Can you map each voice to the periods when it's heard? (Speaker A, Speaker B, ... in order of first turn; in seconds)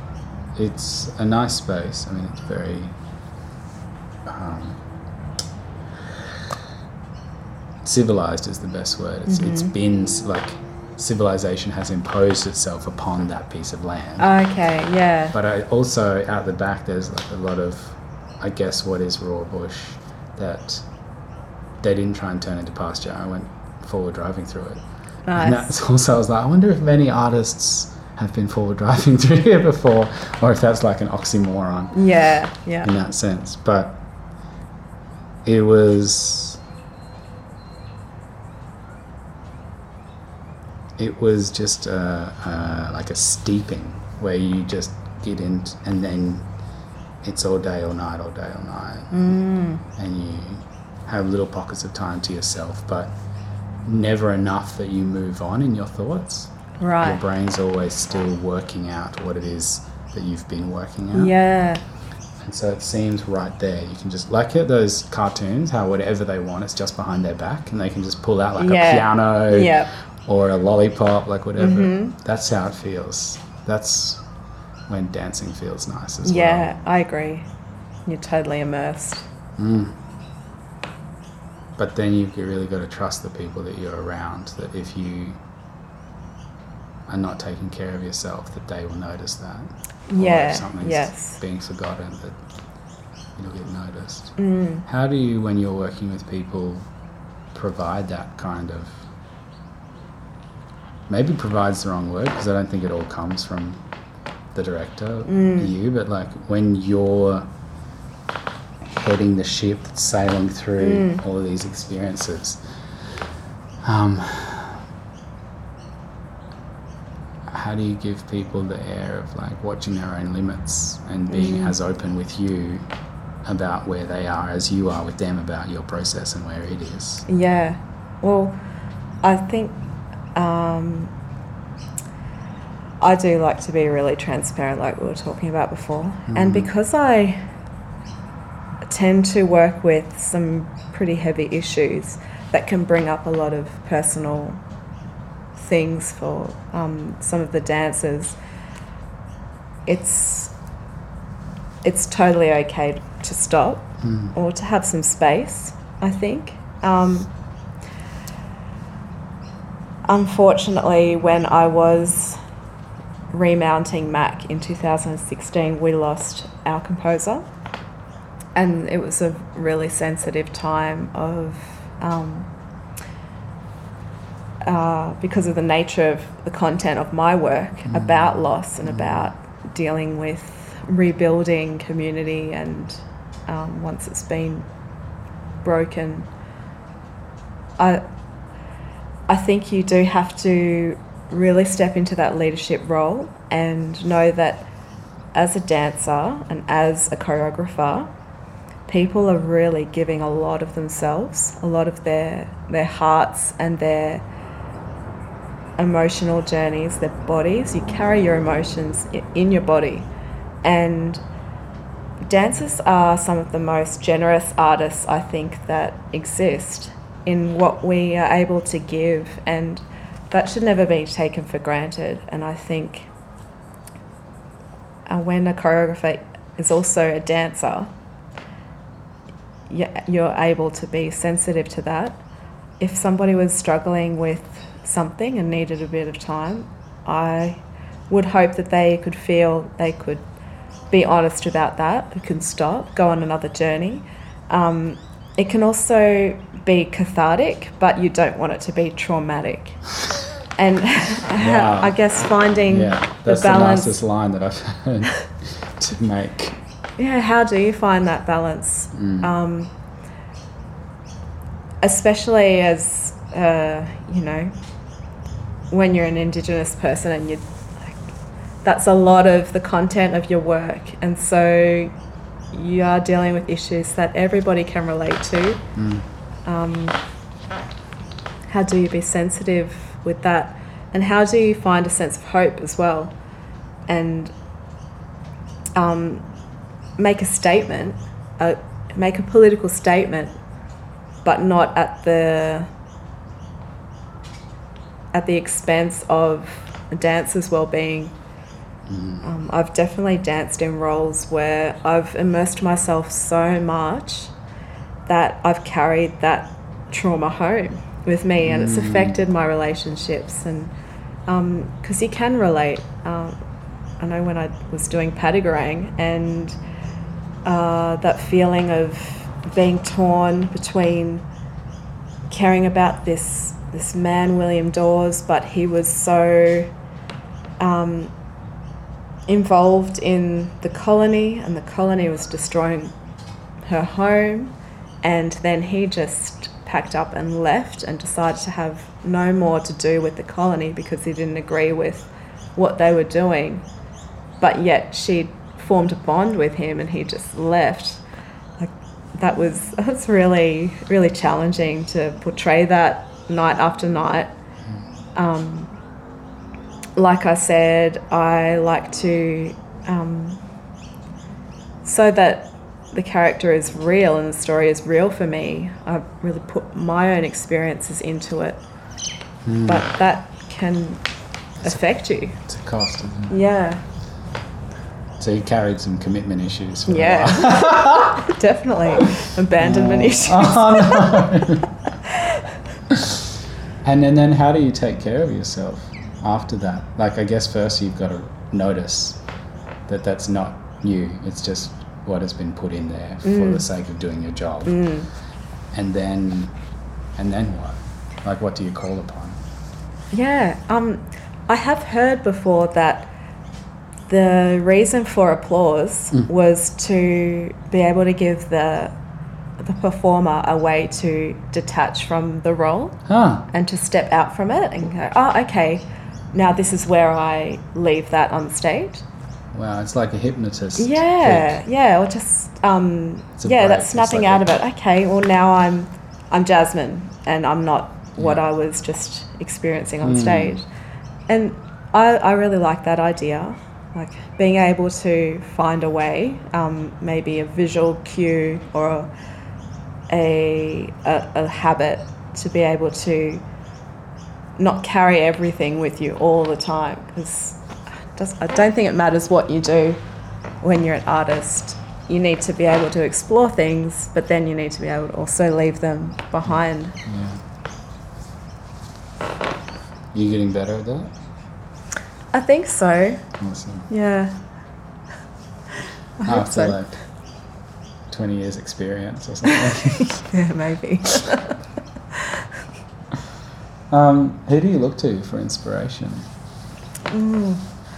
Speaker A: 0.5-3.0, 4.3-4.8, 6.1-6.4, 7.8-14.3, 15.3-20.9, 21.8-24.8, 25.4-31.9, 32.8-34.0, 35.5-36.6, 41.0-46.5, 47.2-49.4, 49.9-53.2, 53.9-61.3, 62.4-74.2, 74.9-76.7, 79.6-80.0, 81.8-85.4, 87.1-92.4, 93.4-96.8, 97.5-99.0, 101.1-103.8, 104.5-107.5, 108.8-113.2, 113.8-114.9, 117.5-122.9, 123.5-127.3, 136.3-136.7, 154.0-154.3, 177.9-179.3, 251.4-252.0, 252.7-256.6, 258.9-259.3, 275.8-276.1, 298.9-299.2, 308.4-309.2, 369.4-369.9, 372.4-373.4, 375.2-378.2, 379.6-381.7, 382.9-389.2, 389.9-394.8, 395.7-396.5, 397.2-399.4, 413.1-413.5, 419.5-421.6, 423.4-424.5, 430.0-430.6, 456.5-457.4, 460.1-461.1, 463.4-463.9, 466.2-467.0, 468.1-470.2, 473.9-476.3
Speaker B: 9.3-9.7, 14.2-15.3, 25.3-25.7, 31.9-32.9, 49.1-49.8, 56.8-57.2, 61.1-61.8, 68.6-69.9, 71.6-72.1, 76.2-77.5, 78.1-79.3, 90.1-91.4, 94.4-94.8, 105.3-105.7, 110.8-111.2, 121.3-121.8, 127.3-128.6, 129.2-129.8, 130.3-131.1, 133.0-137.4, 138.9-144.6, 145.6-148.4, 149.9-150.5, 151.8-157.3, 160.1-162.4, 163.3-167.5, 168.6-172.5, 174.6-184.7, 185.6-186.3, 187.8-188.0, 189.3-194.7, 195.3-198.1, 198.9-204.2, 205.8-210.1, 210.6-211.2, 212.3-223.1, 225.1-227.9, 229.7-232.2, 232.8-240.2, 240.9-249.8, 250.6-253.9, 257.0-259.7, 261.8-264.5, 265.7-268.0, 268.6-271.9, 272.5-275.6, 276.5-277.0, 278.5-283.1, 283.9-284.3, 285.8-286.2, 287.0-290.4, 291.2-292.7, 295.1-298.1, 299.2-304.3, 305.1-310.7, 311.3-313.4, 314.0-316.6, 317.4-321.2, 322.3-326.7, 327.6-328.1, 329.3-332.9, 333.7-343.6, 344.4-348.0, 348.6-354.3, 355.2-355.7, 357.0-360.4, 361.8-368.6, 369.7-371.0, 371.6-372.4, 373.3-373.8, 376.9-381.3, 382.0-382.5, 393.2-393.7, 394.7-395.1, 400.1-403.1, 404.1-408.9, 409.6-419.0, 420.8-430.7, 431.3-439.1, 440.1-443.4, 444.6-450.0, 450.6-457.0, 462.3-463.3, 463.9-464.4, 466.2-466.8, 469.5-471.6, 472.1-472.5, 477.1-477.6